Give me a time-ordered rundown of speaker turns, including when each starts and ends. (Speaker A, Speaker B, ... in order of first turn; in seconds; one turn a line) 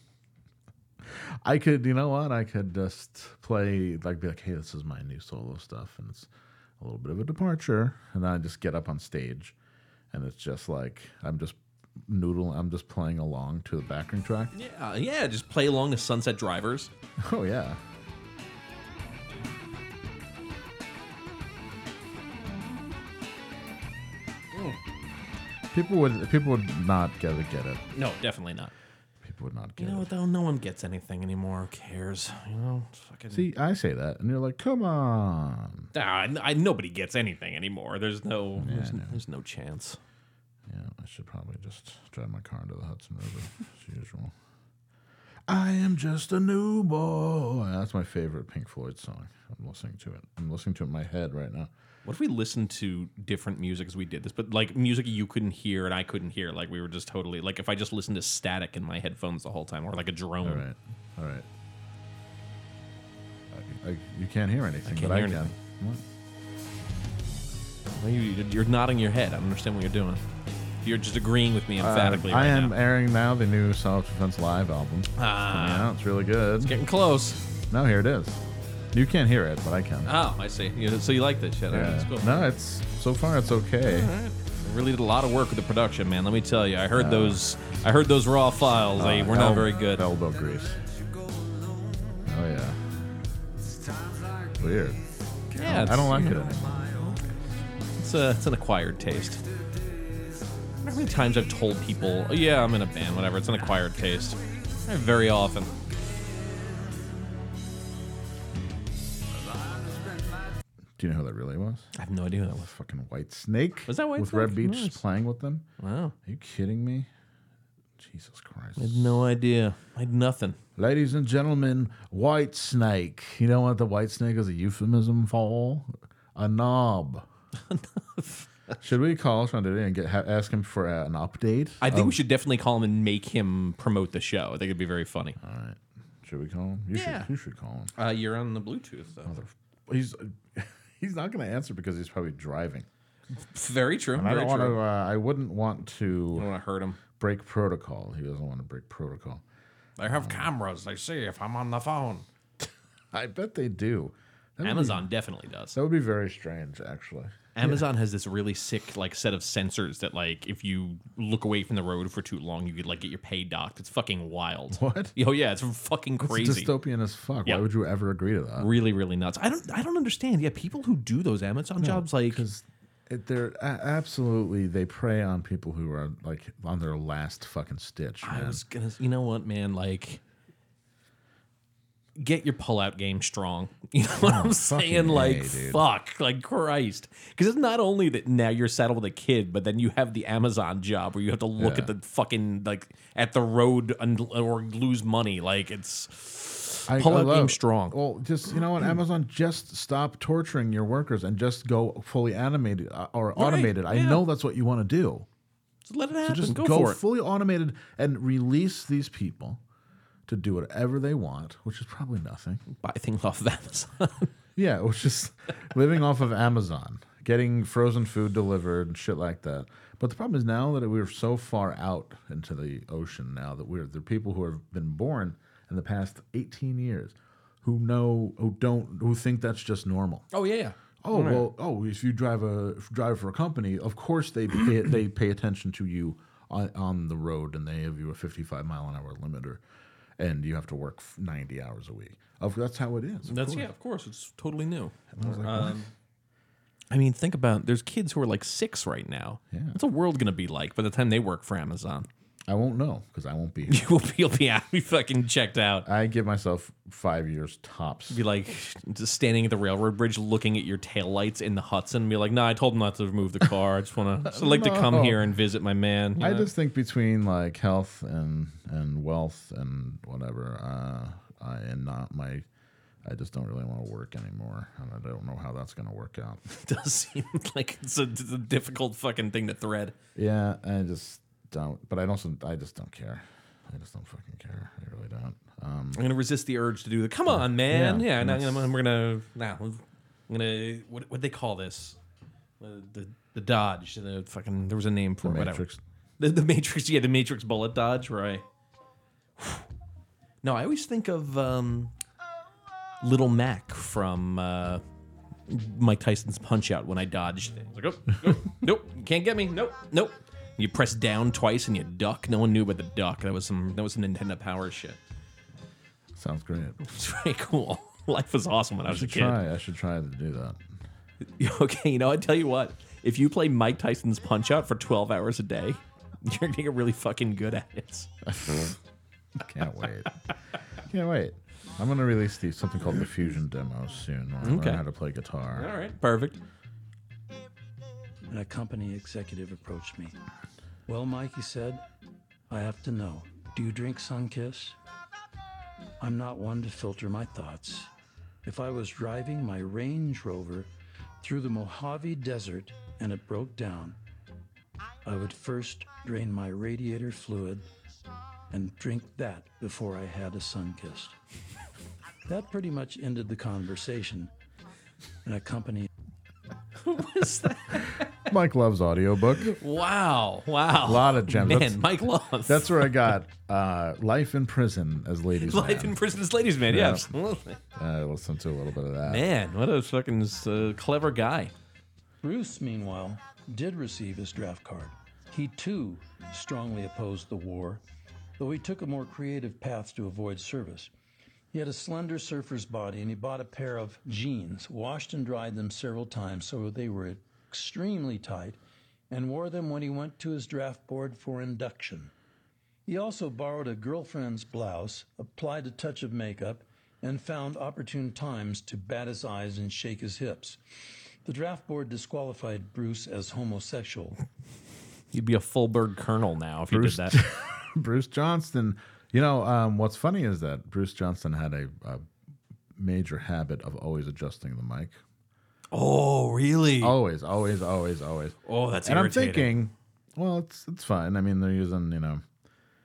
Speaker A: 1.0-9.6
Speaker A: 10.1-14.5
Speaker B: 14.5-16.9
Speaker A: 17.2-17.8
Speaker A: 25.7-27.8
Speaker B: 27.9-28.7
Speaker A: 29.2-30.1
Speaker B: 29.8-33.5
Speaker A: 33.3-35.9
Speaker B: 35.9-40.0
Speaker A: 38.6-39.2
Speaker A: 40.7-44.3
Speaker A: 45.5-51.7
Speaker B: 52.0-60.6
Speaker A: 60.4-61.5
Speaker A: 63.5-66.0
Speaker B: 64.8-65.5
Speaker B: 68.0-70.2
Speaker B: 70.8-72.7
Speaker A: 71.8-76.8
Speaker B: 75.2-75.9
Speaker B: 76.6-77.5
Speaker A: 77.7-78.4
Speaker A: 78.9-80.1
Speaker B: 80.1-82.5
Speaker A: 81.7-84.1
Speaker B: 83.8-90.0
Speaker A: 86.9-87.4
Speaker A: 89.0-90.8
Speaker A: 92.2-92.8
Speaker A: 94.5-95.0
Speaker B: 95.5-97.1
Speaker A: 95.6-97.0
Speaker B: 98.0-99.4
Speaker B: 100.8-105.7
Speaker A: 111.0-111.9
Speaker B: 112.0-112.7
Speaker A: 112.6-115.7
Speaker B: 113.9-115.0
Speaker B: 115.8-116.1
Speaker A: 116.2-117.1
Speaker A: 118.0-119.2
Speaker B: 118.8-120.6
Speaker A: 120.8-127.3
Speaker B: 127.7-128.8
Speaker A: 128.8-132.2
Speaker B: 131.8-135.4
Speaker A: 135.4-137.9
Speaker B: 136.9-137.3
Speaker B: 138.0-139.3
Speaker A: 139.3-142.9
Speaker B: 143.5-144.8
Speaker A: 144.2-146.5
Speaker B: 146.3-147.0
Speaker A: 147.2-149.4
Speaker B: 150.0-152.3
Speaker A: 150.1-150.5
Speaker A: 152.6-155.1
Speaker B: 154.6-155.8
Speaker A: 155.7-157.8
Speaker B: 157.6-166.7
Speaker A: 164.7-165.1
Speaker A: 166.2-168.7
Speaker B: 168.6-172.4
Speaker A: 171.8-178.6
Speaker B: 178.2-180.2
Speaker B: 182.2-198.0
Speaker A: 184.2-185.8
Speaker A: 191.6-191.9
Speaker A: 196.9-205.3
Speaker B: 203.4-204.2
Speaker B: 205.9-207.0
Speaker A: 206.2-209.6
Speaker A: 210.3-212.6
Speaker B: 212.8-214.3
Speaker A: 214.6-230.3
Speaker B: 230.3-231.5
Speaker A: 231.0-239.6
Speaker A: 240.2-243.7
Speaker B: 243.3-245.9
Speaker A: 245.1-245.8
Speaker B: 246.9-252.1
Speaker A: 249.5-249.8
Speaker A: 252.5-253.8
Speaker B: 253.7-255.9
Speaker A: 255.8-258.2
Speaker B: 258.1-266.5
Speaker A: 264.2-265.2
Speaker A: 266.2-272.4
Speaker A: 273.0-276.4
Speaker B: 276.6-279.9
Speaker A: 280.1-286.0
Speaker B: 285.9-292.0
Speaker A: 287.3-288.7
Speaker B: 292.6-295.6
Speaker A: 295.2-295.8
Speaker B: 296.2-298.4
Speaker B: 299.4-299.6
Speaker B: 300.4-301.9
Speaker B: 303.0-304.8
Speaker B: 305.5-315.0
Speaker A: 316.1-316.8
Speaker B: 316.8-319.4
Speaker A: 318.9-320.6
Speaker B: 321.4-328.1
Speaker A: 328.3-328.8
Speaker A: 329.4-330.1
Speaker A: 330.9-335.7
Speaker B: 334.4-334.8
Speaker B: 335.5-336.4
Speaker C: 338.3-340.2
Speaker C: 340.9-341.8
Speaker C: 342.5-344.8
Speaker C: 346.0-347.9
Speaker C: 348.4-350.7
Speaker C: 351.2-354.0
Speaker C: 355.0-357.6
Speaker C: 358.5-361.1
Speaker C: 362.3-364.3
Speaker C: 365.2-365.9
Speaker B: 366.8-368.1
Speaker A: 368.2-369.6
Speaker B: 369.5-373.0
Speaker A: 370.8-371.8
Speaker A: 372.5-376.0
Speaker B: 375.4-377.6
Speaker A: 376.7-377.1
Speaker A: 377.8-379.2
Speaker B: 379.1-381.5
Speaker C: 382.2-387.8
Speaker C: 388.4-390.9
Speaker C: 391.5-398.6
Speaker C: 399.1-402.1
Speaker C: 402.9-410.6
Speaker C: 411.2-414.2
Speaker B: 415.1-417.2
Speaker A: 416.7-422.1
Speaker A: 422.8-425.0
Speaker B: 425.7-427.0
Speaker A: 426.8-432.2
Speaker B: 428.5-429.6